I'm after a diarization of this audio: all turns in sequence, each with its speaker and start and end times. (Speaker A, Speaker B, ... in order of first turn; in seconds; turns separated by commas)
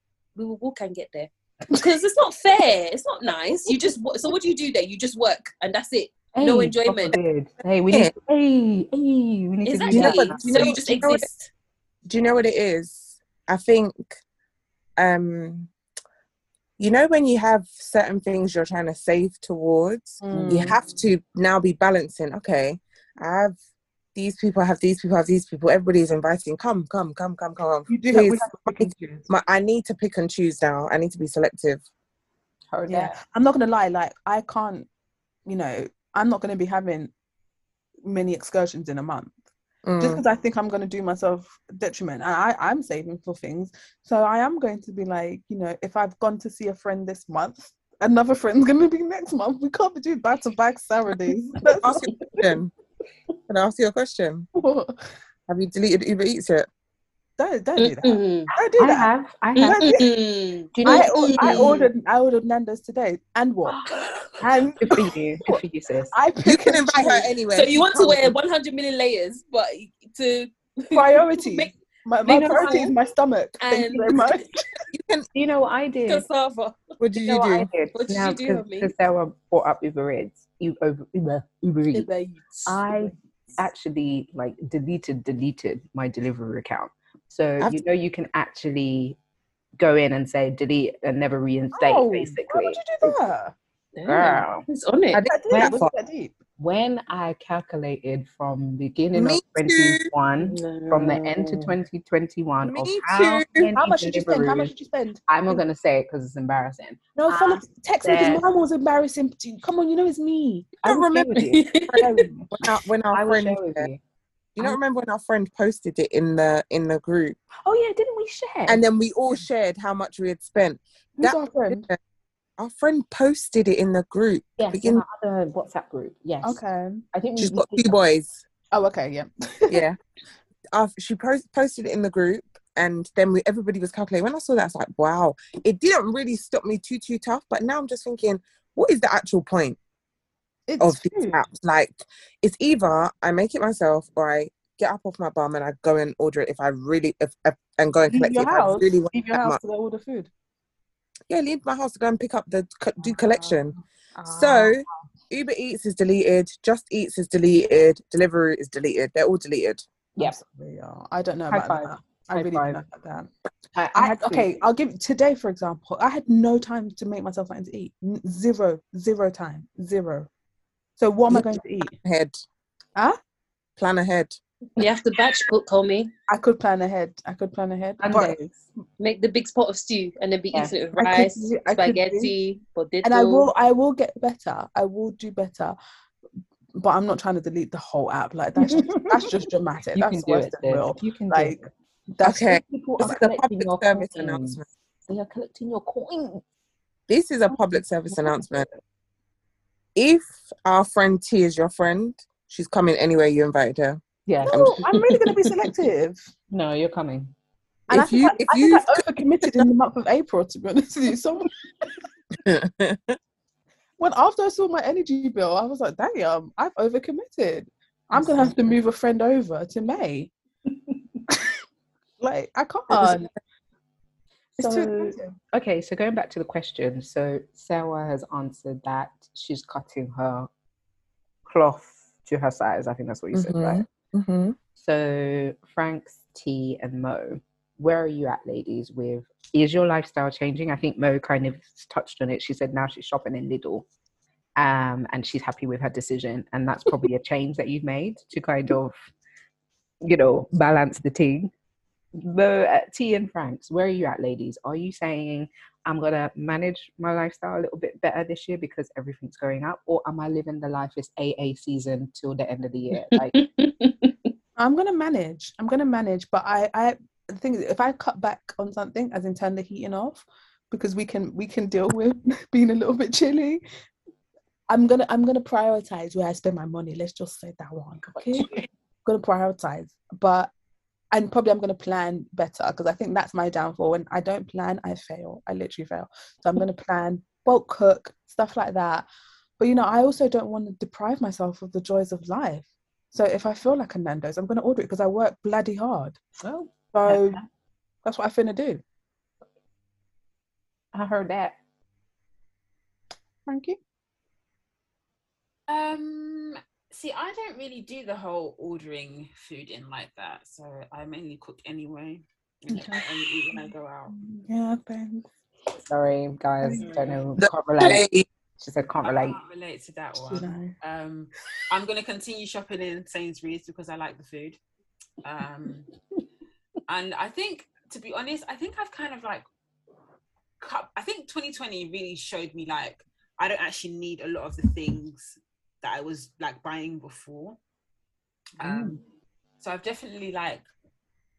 Speaker A: 0.4-7.2, Speaker B: 6.3-10.7, Speaker A: 9.7-11.5, Speaker C: 9.9-11.3, Speaker C: 12.1-14.2, Speaker C: 15.0-15.7, Speaker C: 16.8-23.6, Speaker D: 20.2-20.8, Speaker B: 20.3-20.7, Speaker C: 24.1-31.8, Speaker D: 27.9-29.3, Speaker B: 32.7-33.2, Speaker D: 32.9-34.9, Speaker D: 35.5-37.1, Speaker D: 38.0-39.4, Speaker C: 39.9-40.2, Speaker D: 40.0-52.5, Speaker C: 51.8-52.7, Speaker C: 53.5-54.5, Speaker D: 54.5-54.9, Speaker C: 55.5-56.7, Speaker D: 57.4-60.1, Speaker A: 57.8-58.5, Speaker B: 58.7-60.0, Speaker A: 59.6-61.9, Speaker B: 60.7-61.8, Speaker D: 60.9-63.8, Speaker D: 64.4-65.6, Speaker B: 64.8-66.2, Speaker D: 66.1-67.3, Speaker C: 66.4-68.3, Speaker A: 67.5-73.0, Speaker D: 70.9-74.8, Speaker A: 73.6-74.4, Speaker C: 74.9-75.3, Speaker B: 75.3-76.3, Speaker A: 76.1-76.8, Speaker C: 77.0-77.7, Speaker B: 77.2-82.1, Speaker A: 77.9-78.9, Speaker A: 81.9-82.8, Speaker B: 82.7-89.2, Speaker B: 89.8-93.2, Speaker D: 91.7-93.5, Speaker A: 94.0-95.3, Speaker B: 94.0-95.8, Speaker D: 95.3-96.3, Speaker C: 95.5-95.9, Speaker B: 96.6-104.7, Speaker C: 99.1-100.1, Speaker A: 100.5-101.8, Speaker C: 102.6-103.7, Speaker D: 103.7-105.6, Speaker B: 105.3-108.4, Speaker D: 107.2-110.8, Speaker C: 110.8-111.3, Speaker B: 110.8-111.6, Speaker A: 111.3-112.3, Speaker C: 111.9-113.9, Speaker D: 112.0-112.6, Speaker B: 113.1-114.0, Speaker C: 114.6-117.4, Speaker B: 117.7-118.8, Speaker C: 118.7-122.0, Speaker D: 121.2-121.9, Speaker C: 122.6-125.0, Speaker B: 124.6-126.6, Speaker D: 126.4-127.0, Speaker B: 127.1-128.0, Speaker C: 127.4-128.4, Speaker D: 128.7-129.8, Speaker C: 129.7-130.0, Speaker C: 130.7-139.8, Speaker D: 140.7-141.4, Speaker C: 140.8-149.6, Speaker D: 148.1-150.3, Speaker C: 151.3-159.8, Speaker D: 153.0-154.9, Speaker D: 160.2-163.3, Speaker B: 161.5-162.8, Speaker B: 163.8-164.6, Speaker D: 163.9-170.3, Speaker D: 171.0-171.9, Speaker C: 171.3-172.4, Speaker C: 173.8-174.4, Speaker A: 174.8-176.1, Speaker D: 176.3-178.4, Speaker B: 178.0-178.6, Speaker A: 179.0-183.5, Speaker D: 180.9-182.3, Speaker D: 183.0-185.8, Speaker D: 186.8-191.6, Speaker B: 188.6-189.2, Speaker B: 189.9-191.7, Speaker D: 192.2-192.6, Speaker C: 192.2-194.7, Speaker B: 192.5-196.4, Speaker C: 197.1-198.7, Speaker B: 198.1-198.7, Speaker C: 200.0-204.8, Speaker B: 204.3-204.9, Speaker D: 204.4-206.3, Speaker B: 206.5-207.3, Speaker D: 207.9-211.9, Speaker C: 207.9-209.7, Speaker C: 212.4-213.2, Speaker D: 214.0-220.3, Speaker B: 218.1-218.5, Speaker D: 222.2-223.3, Speaker B: 224.6-230.5, Speaker D: 224.6-225.4, Speaker B: 231.4-233.8, Speaker C: 233.3-234.6, Speaker B: 234.8-243.9, Speaker B: 244.6-248.9, Speaker B: 250.0-251.5, Speaker B: 252.2-263.5, Speaker A: 263.0-264.1, Speaker D: 264.6-273.6, Speaker D: 274.7-278.5, Speaker B: 278.0-278.7, Speaker D: 279.1-280.5, Speaker D: 281.1-289.1, Speaker D: 289.6-296.2, Speaker B: 296.4-297.5, Speaker D: 296.9-297.4, Speaker D: 298.0-298.8, Speaker B: 300.9-301.6, Speaker D: 303.5-303.8, Speaker E: 305.7-314.1, Speaker D: 312.7-315.3, Speaker B: 315.8-318.1, Speaker D: 316.6-316.9, Speaker E: 316.8-317.2, Speaker C: 317.4-318.3, Speaker B: 318.6-319.4, Speaker E: 319.0-324.6, Speaker D: 320.3-320.7, Speaker E: 325.2-325.9, Speaker E: 326.9-329.4, Speaker E: 330.6-337.6, Speaker E: 338.6-339.0, Speaker B: 338.6-339.0, Speaker E: 339.6-340.7